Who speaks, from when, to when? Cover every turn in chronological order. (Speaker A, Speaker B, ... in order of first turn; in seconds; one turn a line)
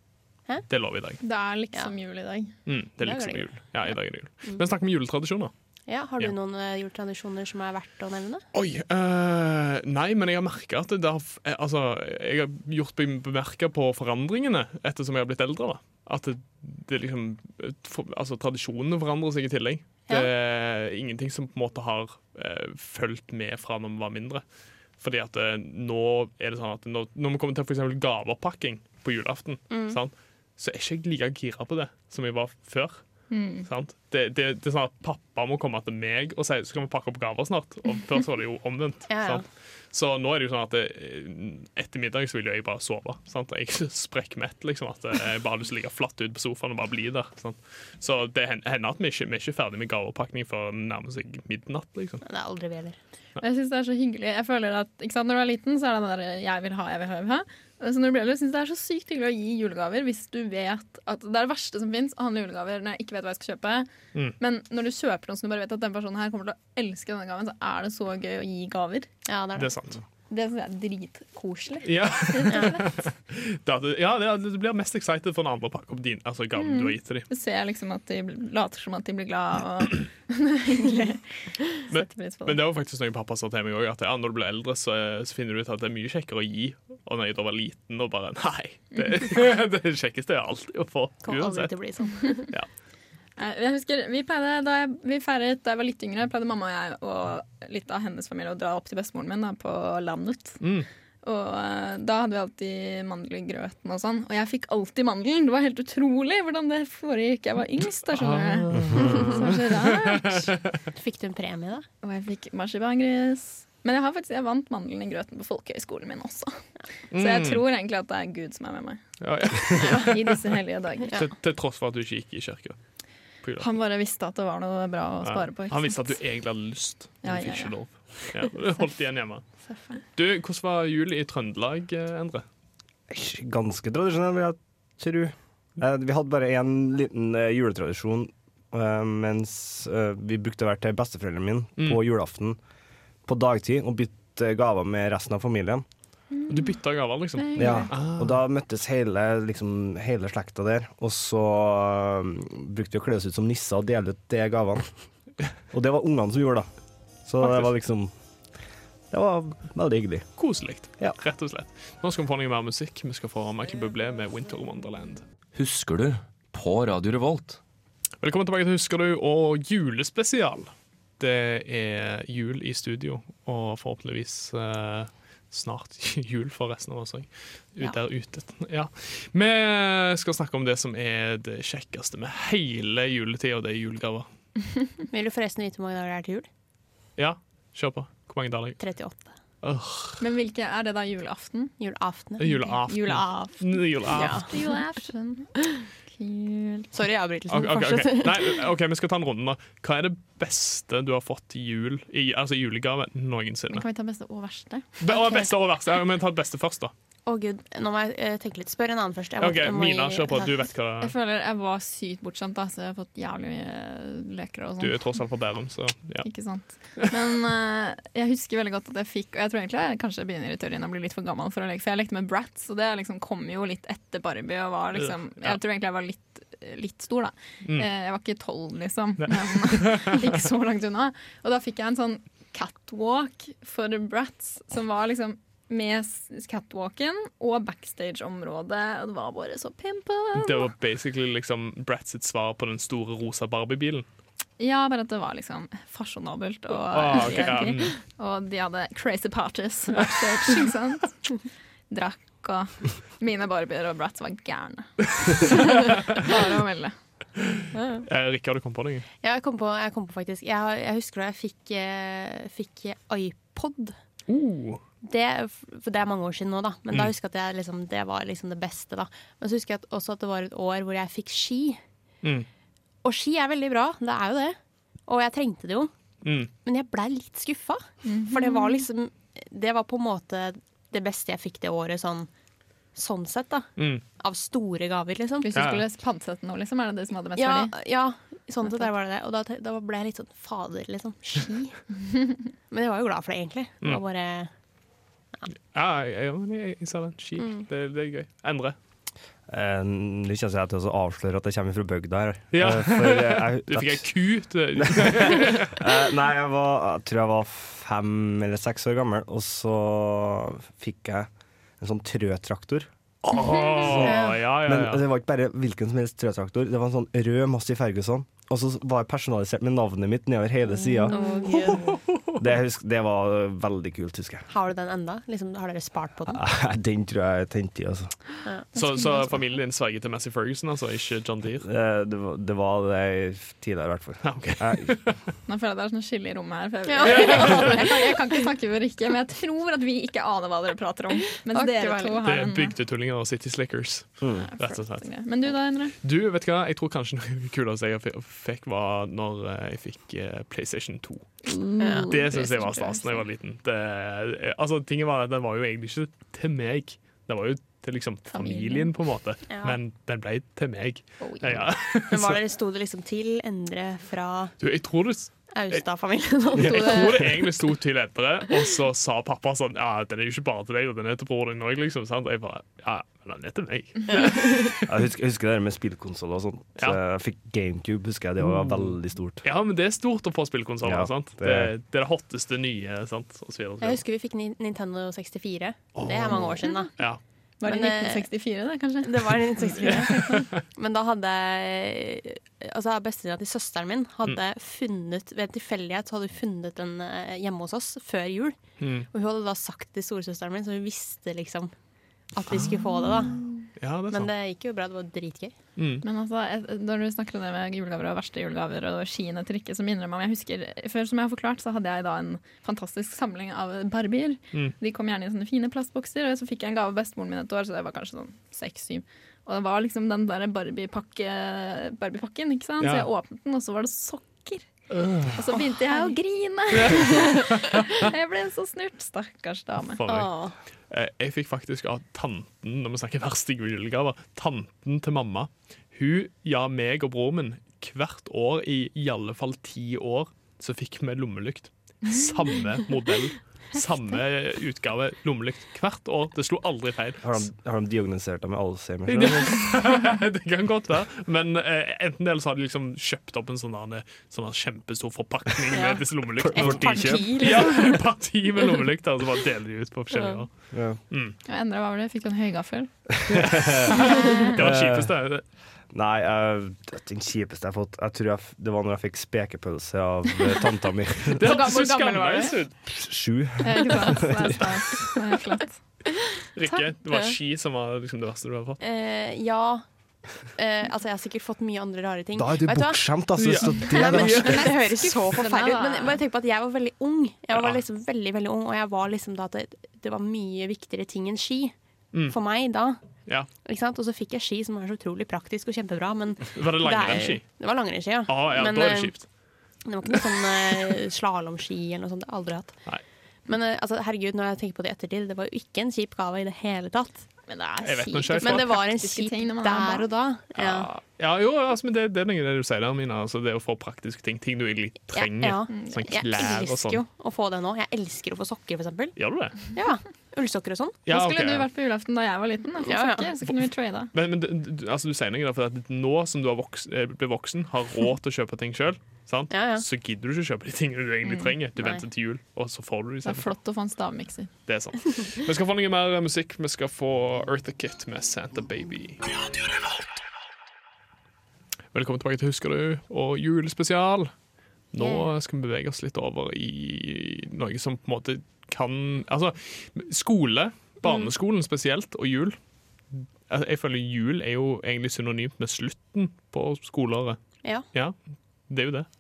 Speaker A: 0.7-1.2
Speaker B: 1.2-2.5
Speaker A: 2.7-5.5
Speaker C: 3.0-3.5
Speaker C: 5.9-8.4
Speaker A: 8.5-24.4
Speaker A: 25.0-33.0
Speaker C: 29.7-30.0
Speaker B: 33.3-33.7
Speaker A: 33.6-52.2
Speaker C: 39.1-39.5
Speaker C: 52.2-53.0
Speaker B: 53.4-69.1
Speaker C: 69.3-69.7
Speaker A: 69.6-70.0
Speaker B: 70.3-73.0
Speaker A: 71.8-77.3
Speaker B: 76.6-82.6
Speaker A: 81.9-91.7
Speaker B: 89.0-89.2
Speaker C: 91.2-92.5
Speaker A: 92.3-92.7
Speaker B: 93.4-100.6
Speaker A: 100.6-100.9
Speaker B: 101.2-110.5
Speaker A: 108.1-110.8
Speaker C: 110.9-111.9
Speaker B: 112.0-116.6
Speaker A: 117.1-117.6
Speaker B: 117.1-119.0
Speaker A: 119.2-120.4
Speaker B: 119.7-121.2
Speaker C: 119.8-120.1
Speaker A: 121.1-122.8
Speaker B: 123.6-126.2
Speaker A: 125.2-129.4
Speaker B: 127.2-127.8
Speaker B: 129.7-130.0
Speaker A: 130.2-132.4
Speaker D: 133.1-142.6
Speaker D: 143.3-145.8
Speaker B: 146.3-146.8
Speaker A: 146.5-148.4
Speaker B: 147.4-147.9
Speaker D: 147.6-154.9
Speaker D: 155.7-156.7
Speaker D: 157.2-158.1
Speaker A: 157.4-157.7
Speaker D: 159.1-160.3
Speaker A: 160.4-165.2
Speaker E: 165.6-167.6
Speaker A: 168.2-184.3
Speaker C: 185.1-186.5
Speaker A: 187.2-188.8
Speaker C: 188.8-189.3
Speaker A: 189.6-190.2
Speaker B: 190.2-191.7
Speaker C: 191.8-194.6
Speaker A: 192.4-194.5
Speaker B: 194.3-195.5
Speaker B: 196.1-196.9
Speaker C: 196.9-198.6
Speaker A: 197.5-203.8
Speaker B: 203.7-205.1
Speaker A: 205.0-206.9
Speaker C: 207.3-210.5
Speaker A: 209.4-211.1
Speaker B: 211.0-215.0
Speaker A: 214.8-216.3
Speaker B: 216.2-240.7
Speaker A: 225.0-225.6
Speaker A: 229.2-230.2
Speaker A: 240.3-244.1
Speaker B: 244.6-251.4
Speaker A: 246.9-247.9
Speaker B: 251.9-257.0
Speaker A: 257.6-259.1
Speaker C: 257.7-258.1
Speaker C: 259.2-264.0
Speaker A: 264.3-264.8
Speaker C: 265.0-271.8
Speaker C: 273.0-274.6
Speaker C: 275.1-275.9
Speaker A: 276.2-276.5
Speaker C: 276.6-282.3
Speaker B: 278.0-278.8
Speaker C: 282.9-285.5
Speaker A: 283.8-284.0
Speaker B: 285.4-287.7
Speaker A: 285.6-285.8
Speaker C: 287.4-292.0
Speaker C: 292.7-294.5
Speaker A: 295.7-298.8
Speaker C: 297.4-297.6
Speaker D: 299.5-304.1
Speaker A: 302.5-305.9
Speaker D: 304.8-311.3
Speaker D: 311.8-312.9
Speaker A: 313.2-315.1
Speaker D: 313.8-321.6
Speaker C: 313.9-314.4
Speaker C: 321.1-322.0
Speaker D: 322.4-324.5
Speaker C: 324.5-326.4
Speaker D: 326.3-328.1
Speaker B: 328.7-329.4
Speaker A: 328.8-331.7
Speaker D: 331.6-335.0
Speaker A: 334.2-335.2
Speaker B: 335.5-342.8
Speaker C: 336.9-338.4
Speaker A: 337.0-337.8
Speaker C: 341.5-342.2
Speaker A: 342.2-345.0
Speaker D: 344.2-344.5
Speaker B: 344.4-345.9
Speaker A: 346.0-351.4
Speaker B: 351.5-353.2
Speaker C: 351.8-352.2
Speaker A: 352.0-362.4
Speaker B: 358.3-358.9
Speaker C: 359.5-359.8
Speaker C: 362.1-364.5
Speaker A: 364.6-365.9
Speaker C: 365.5-367.4
Speaker A: 366.5-374.9
Speaker C: 374.1-374.7
Speaker D: 374.8-379.4
Speaker A: 378.4-384.0
Speaker D: 380.8-381.7
Speaker C: 383.8-386.9
Speaker A: 385.9-387.2
Speaker B: 386.6-386.9
Speaker B: 387.6-390.5
Speaker C: 387.6-388.3
Speaker C: 389.0-398.6
Speaker A: 389.8-390.6
Speaker A: 398.8-399.1
Speaker C: 399.1-401.7
Speaker C: 402.3-403.5
Speaker A: 403.8-404.3
Speaker C: 404.1-405.6
Speaker A: 405.8-406.0
Speaker B: 406.0-424.7
Speaker A: 422.8-423.1
Speaker A: 424.9-425.4
Speaker B: 425.3-430.0
Speaker A: 426.8-428.0
Speaker A: 430.0-430.3
Speaker C: 430.1-430.6
Speaker A: 430.9-447.5
Speaker D: 447.2-449.6
Speaker A: 449.1-460.5
Speaker C: 455.7-458.0
Speaker D: 456.4-457.5
Speaker C: 460.1-460.4
Speaker D: 460.7-461.0
Speaker A: 461.1-461.4
Speaker B: 461.5-462.9
Speaker D: 463.3-465.1
Speaker A: 463.3-465.4
Speaker B: 463.9-464.5
Speaker D: 465.9-471.6
Speaker A: 471.4-472.8
Speaker B: 471.4-472.6
Speaker D: 472.9-475.0
Speaker B: 473.6-475.8
Speaker A: 476.6-478.8
Speaker C: 477.1-477.4
Speaker C: 478.8-479.9
Speaker C: 480.6-483.1
Speaker D: 482.4-484.7
Speaker A: 483.4-484.7
Speaker C: 483.9-491.8
Speaker B: 483.9-486.2
Speaker A: 487.5-487.8
Speaker C: 492.3-493.0
Speaker C: 493.6-499.1
Speaker A: 496.5-497.4
Speaker A: 498.3-499.3
Speaker C: 499.9-502.8
Speaker C: 503.5-507.3
Speaker B: 507.5-510.1
Speaker A: 507.8-508.8
Speaker C: 508.4-510.9
Speaker A: 510.6-517.0
Speaker C: 515.1-521.0
Speaker B: 515.7-516.0
Speaker A: 519.2-519.7
Speaker A: 521.1-521.7
Speaker B: 521.1-524.1
Speaker C: 522.8-523.3
Speaker A: 524.1-533.5
Speaker C: 529.5-529.9
Speaker B: 531.2-531.5
Speaker C: 531.8-532.0
Speaker B: 533.2-534.5
Speaker A: 534.7-539.2
Speaker A: 541.9-544.3
Speaker A: 544.9-552.6
Speaker C: 545.0-545.3
Speaker C: 551.0-551.3
Speaker A: 553.1-557.4
Speaker A: 558.7-559.1